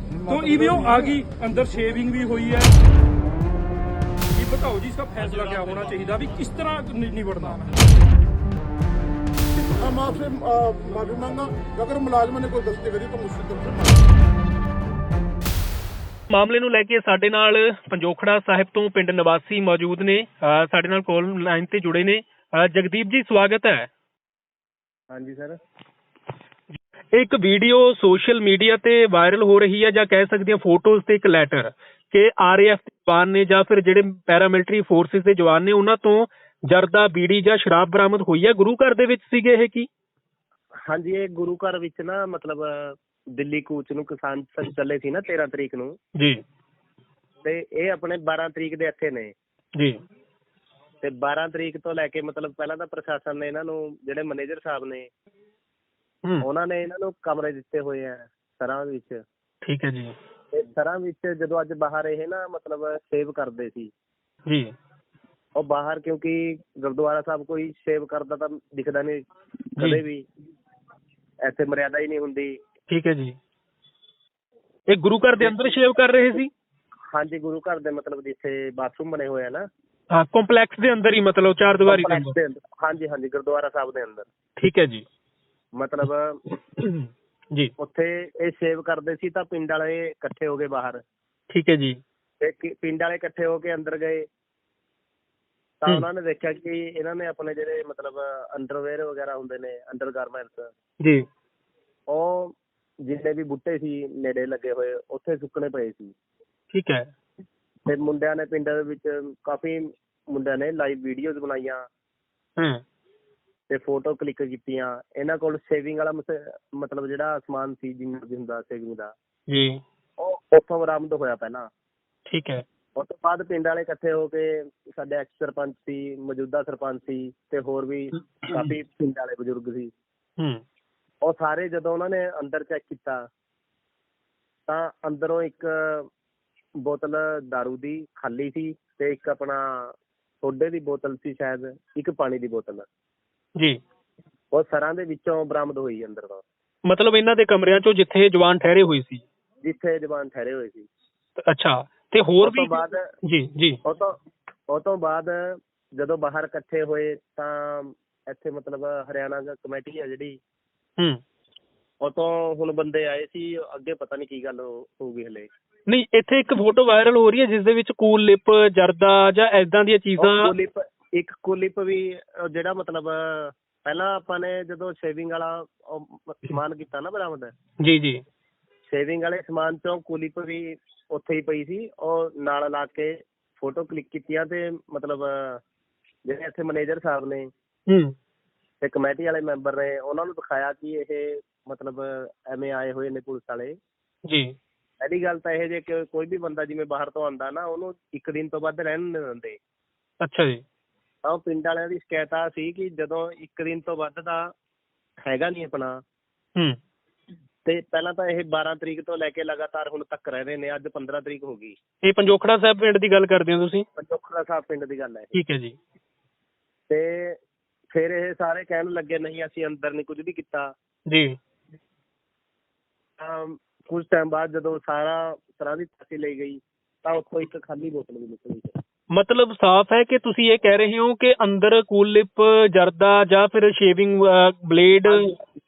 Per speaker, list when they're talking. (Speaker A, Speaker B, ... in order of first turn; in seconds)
Speaker A: 0.1-1.2, 9.6-14.0
Speaker B: 0.2-2.7, 4.3-7.8
Speaker C: 16.3-23.9, 27.1-39.9, 59.6-60.1, 72.9-73.3, 74.9-76.5, 80.1-82.3, 84.6-85.0, 86.8-87.7, 91.5-92.0, 106.7-107.0, 119.5-119.8, 122.3-122.6, 128.4-128.7, 146.8-149.2, 151.4-153.8, 165.9-170.5, 177.8-178.2, 187.9-188.1, 194.3-194.6, 200.2-200.6, 212.0-213.8, 215.3-215.8, 221.1-221.4, 229.1-235.3
Speaker D: 25.1-25.6, 40.9-46.0, 47.4-49.3, 51.0-55.1, 56.4-59.2, 60.5-63.9, 65.6-69.2, 69.8-70.2, 71.4-72.5, 77.1-79.7, 81.8-84.2, 85.8-86.4, 87.8-91.0, 92.4-94.2, 95.8-100.7, 102.1-106.1, 107.9-111.8, 113.7-119.1, 120.2-121.7, 123.0-129.9, 131.2-133.2, 134.7-136.1, 136.8-142.8, 144.5-146.4, 149.6-150.9, 152.4-153.1, 153.8-154.2, 154.7-160.4, 162.0-165.5, 170.2-177.5, 178.9-185.6, 186.3-187.5, 188.8-193.7, 195.0-199.6, 201.2-204.4, 205.2-206.0, 207.6-211.7, 213.9-215.3, 216.9-217.4, 217.9-220.7, 223.2-228.8, 235.1-235.4